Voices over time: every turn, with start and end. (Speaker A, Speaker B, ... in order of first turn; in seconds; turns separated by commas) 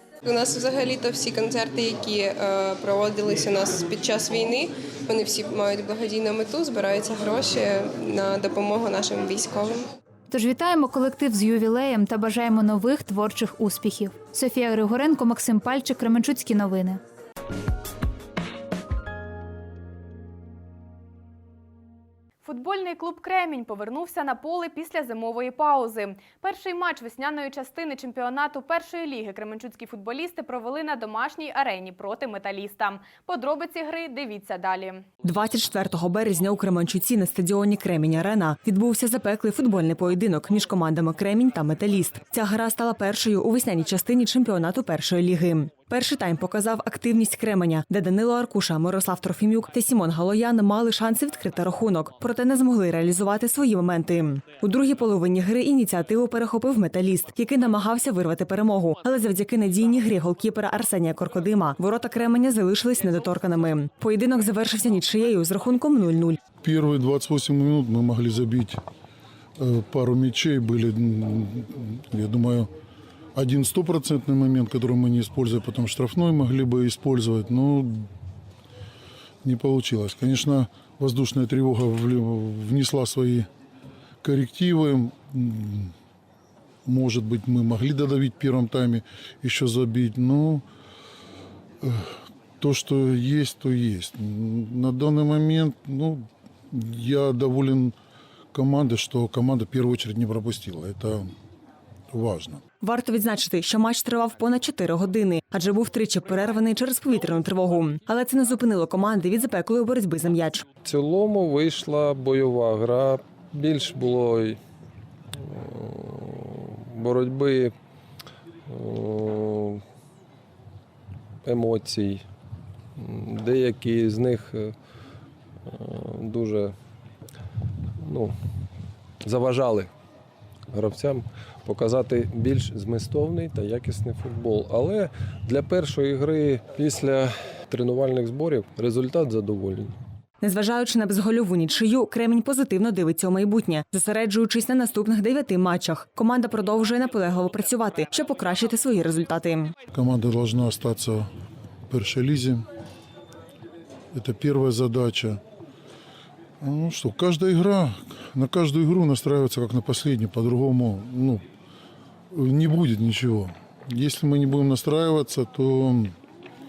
Speaker A: 0.2-9.9, Speaker B: 10.3-17.0, Speaker C: 22.4-35.0, Speaker D: 35.2-66.4, Speaker E: 66.6-68.8, Speaker E: 69.6-72.7, Speaker E: 73.3-78.1, Speaker E: 79.4-83.5, Speaker E: 84.2-85.9, Speaker E: 86.8-90.6, Speaker E: 91.8-97.9, Speaker E: 98.5-101.3, Speaker E: 102.1-102.6, Speaker D: 102.8-110.7, Speaker F: 110.8-114.6, Speaker F: 115.4-117.7, Speaker F: 118.7-119.8, Speaker F: 121.4-122.2, Speaker F: 123.0-124.7, Speaker F: 125.7-126.7, Speaker F: 128.0-128.3, Speaker F: 129.2-129.9, Speaker F: 130.7-139.9, Speaker D: 140.4-149.7, Speaker E: 149.9-151.3, Speaker E: 151.9-152.6, Speaker E: 154.1-155.4, Speaker E: 156.6-161.4, Speaker E: 162.3-166.2